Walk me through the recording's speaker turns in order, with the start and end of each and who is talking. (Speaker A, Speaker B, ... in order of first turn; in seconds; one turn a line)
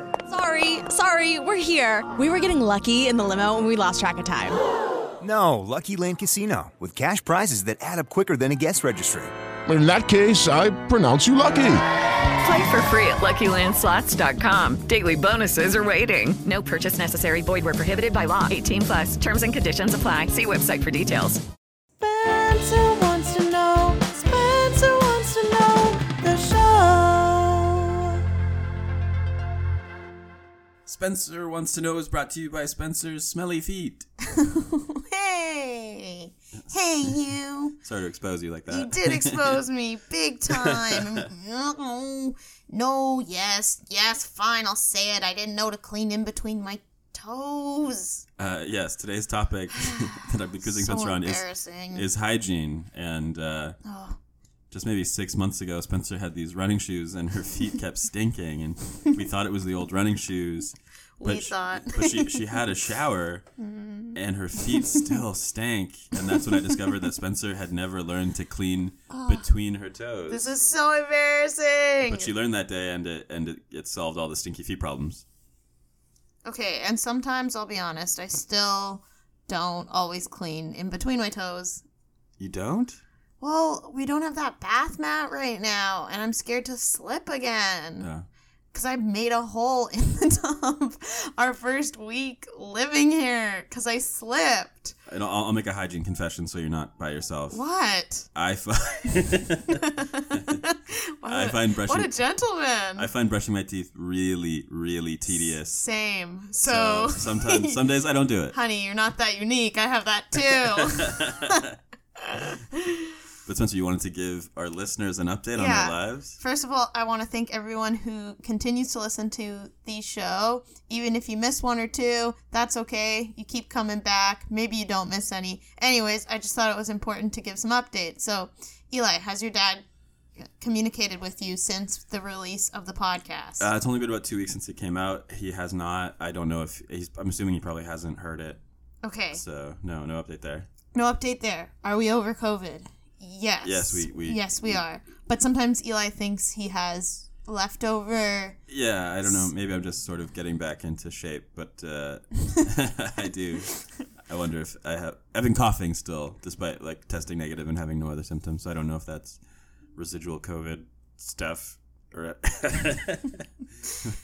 Speaker A: 0.3-4.6
Speaker B: 5.2-9.3
Speaker C: 9.7-11.8
Speaker D: 12.4-21.4
Speaker E: 22.0-28.2
Speaker F: 30.9-34.1
Speaker E: 34.3-37.8
Speaker F: 37.8-39.6
Speaker E: 38.7-48.2
Speaker F: 40.5-41.3
Speaker F: 48.4-53.8
Speaker E: 49.8-52.1
Speaker E: 53.8-54.2
Speaker F: 54.7-63.5
Speaker E: 61.2-62.5
Speaker E: 63.6-65.1
Speaker F: 64.1-70.5
Speaker E: 66.3-66.8
Speaker E: 69.1-69.5
Speaker E: 70.3-72.3
Speaker F: 72.0-75.2
Speaker E: 76.5-81.8
Speaker F: 82.4-83.0
Speaker E: 83.4-88.1
Speaker F: 88.0-88.3
Speaker E: 88.7-95.0
Speaker F: 95.1-97.6
Speaker E: 97.5-98.3
Speaker F: 98.3-99.8
Speaker E: 99.7-103.1
Speaker F: 100.3-100.6
Speaker F: 101.2-102.2
Speaker F: 103.0-105.8
Speaker E: 105.3-107.8
Speaker F: 106.6-108.6
Speaker E: 108.5-111.6
Speaker F: 110.5-111.8
Speaker E: 112.2-113.1
Speaker F: 113.5-116.4
Speaker E: 115.5-129.8
Speaker E: 130.4-133.7
Speaker F: 133.6-138.6
Speaker E: 139.0-139.4
Speaker F: 139.3-140.7
Speaker E: 140.9-148.6
Speaker F: 143.6-144.8
Speaker F: 148.7-159.4
Speaker F: 159.9-163.4